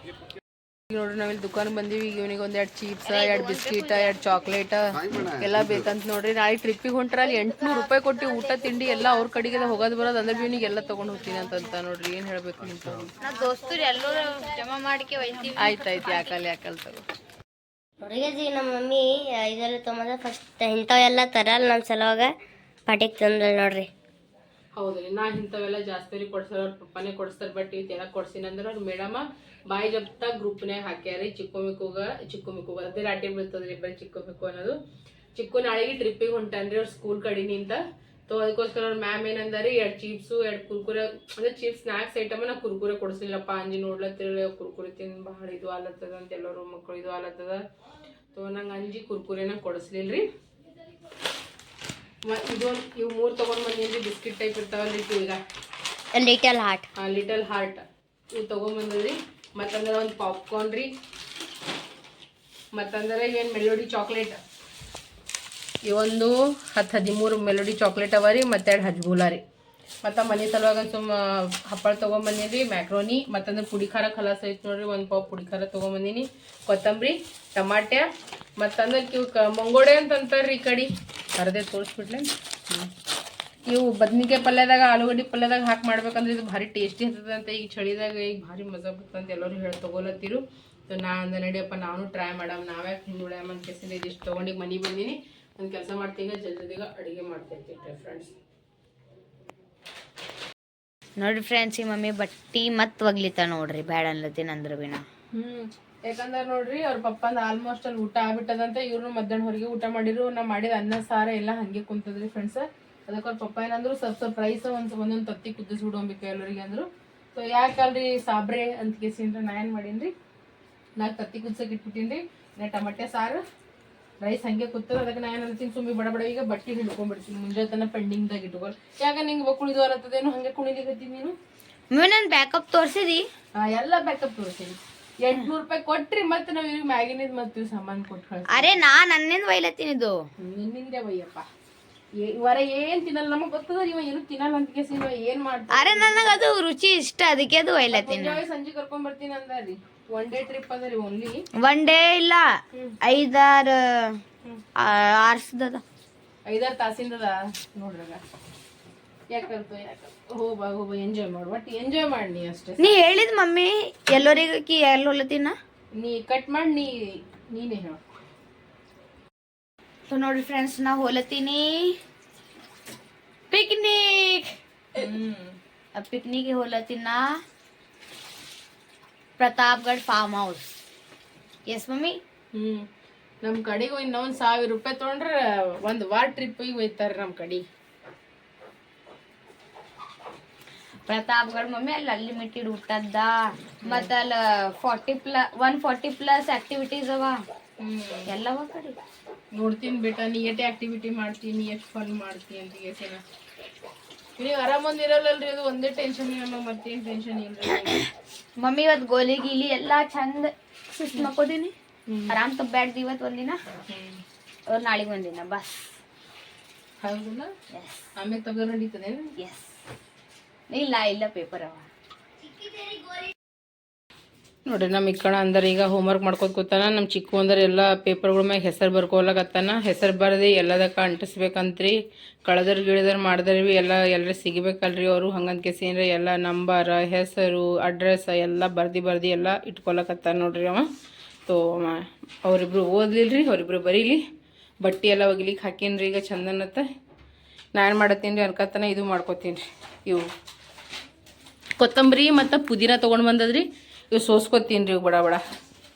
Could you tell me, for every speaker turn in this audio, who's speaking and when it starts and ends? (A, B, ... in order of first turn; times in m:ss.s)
0:00.9-0:13.1 A
0:03.0-0:04.4 B
0:13.2-0:16.3 B
0:15.6-0:17.0 A
0:18.0-0:22.3 C
0:22.9-0:23.9 C
0:24.8-0:34.8 A
0:35.3-0:47.6 A
0:48.3-0:50.3 A
0:52.3-0:55.4 A
0:56.1-0:56.9 C
0:57.0-1:00.9 A
1:02.8-1:04.4 A
1:05.8-1:09.4 A
1:10.0-1:22.9 A
1:23.7-1:38.3 A
1:41.2-1:45.0 B
1:45.3-2:00.1 A
2:01.0-2:03.4 A
2:04.2-2:11.4 A
2:11.9-2:13.3 B
2:13.6-2:18.8 A
2:18.5-2:20.2 B
2:20.4-2:21.5 A
2:22.2-2:26.4 A
2:25.7-2:28.4 B
2:27.9-2:31.5 A
2:31.6-2:32.5 B
2:33.0-2:34.2 B
2:34.8-2:35.8 B
2:36.5-2:38.2 A
2:39.3-2:43.1 A
2:42.8-2:45.6 B
2:45.9-2:48.0 A
2:50.1-2:52.0 B
2:53.5-2:55.0 B
2:55.0-2:55.6 A
2:56.0-2:57.3 B
2:59.4-3:00.8 B
3:01.7-3:02.2 B
3:02.5-3:02.9 A
3:03.4-3:07.6 A
3:11.1-3:17.4 B
3:13.8-3:14.1 A
3:17.8-3:18.3 A
3:18.3-3:19.0 B
3:19.5-3:23.2 A
3:24.4-3:28.1 A
3:28.6-3:31.7 B
3:32.1-3:32.4 A
3:32.3-3:33.6 B
3:33.9-3:34.2 A
3:34.7-3:35.9 B
3:37.0-3:37.5 A
3:37.7-3:38.0 B
3:38.2-3:39.3 A
3:39.4-3:39.7 B
3:40.7-3:41.9 B
3:42.4-3:43.3 C
3:44.7-4:00.9 A
4:01.5-4:04.2 A
4:04.8-4:06.9 A
4:07.8-4:10.2 A
4:11.8-4:15.4 A